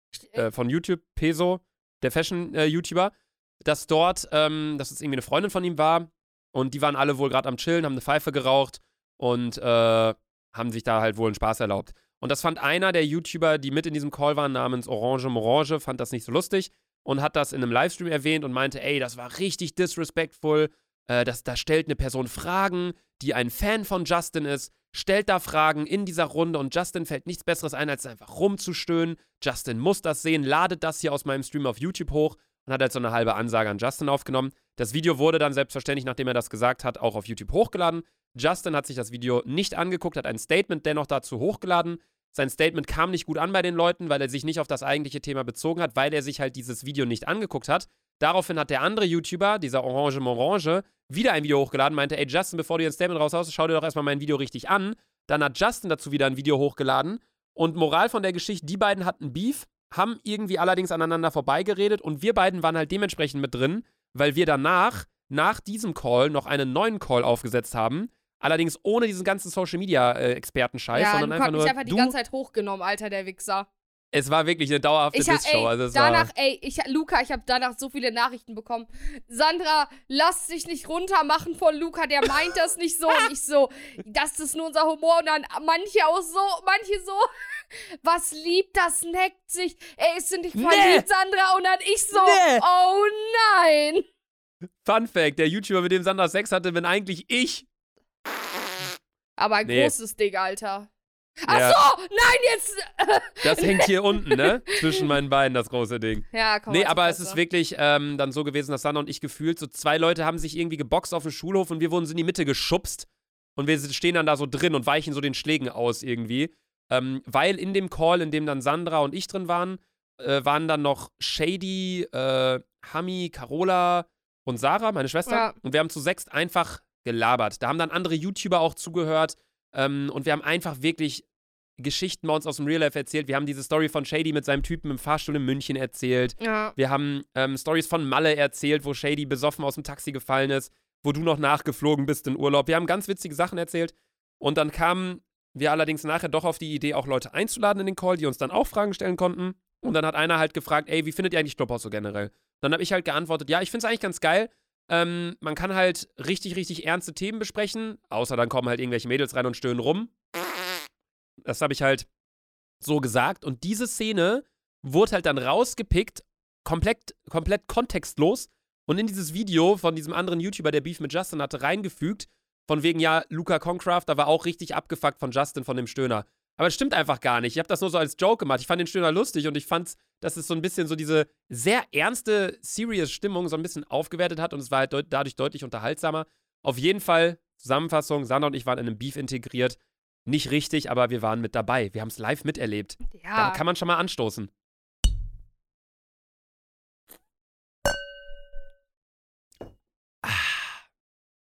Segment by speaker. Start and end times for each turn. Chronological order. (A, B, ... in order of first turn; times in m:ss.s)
0:00.3-1:12.1 A
1:10.9-1:13.7 B
1:14.1-1:16.3 A
1:15.1-1:27.3 B
1:28.0-1:34.0 B
1:30.5-1:31.0 A
1:32.1-1:32.6 A
1:34.8-1:37.6 A
1:39.4-1:40.9 B
1:39.6-1:39.9 A
1:41.4-1:45.1 B
1:41.5-1:41.8 A
1:43.4-2:11.2 A
1:46.3-1:47.4 B
2:05.3-2:05.5 B
2:11.8-2:40.2 A
2:16.4-2:16.7 B
2:41.4-2:42.1 A
2:42.8-3:14.5 A
3:13.1-3:13.6 B
3:20.2-3:20.8 A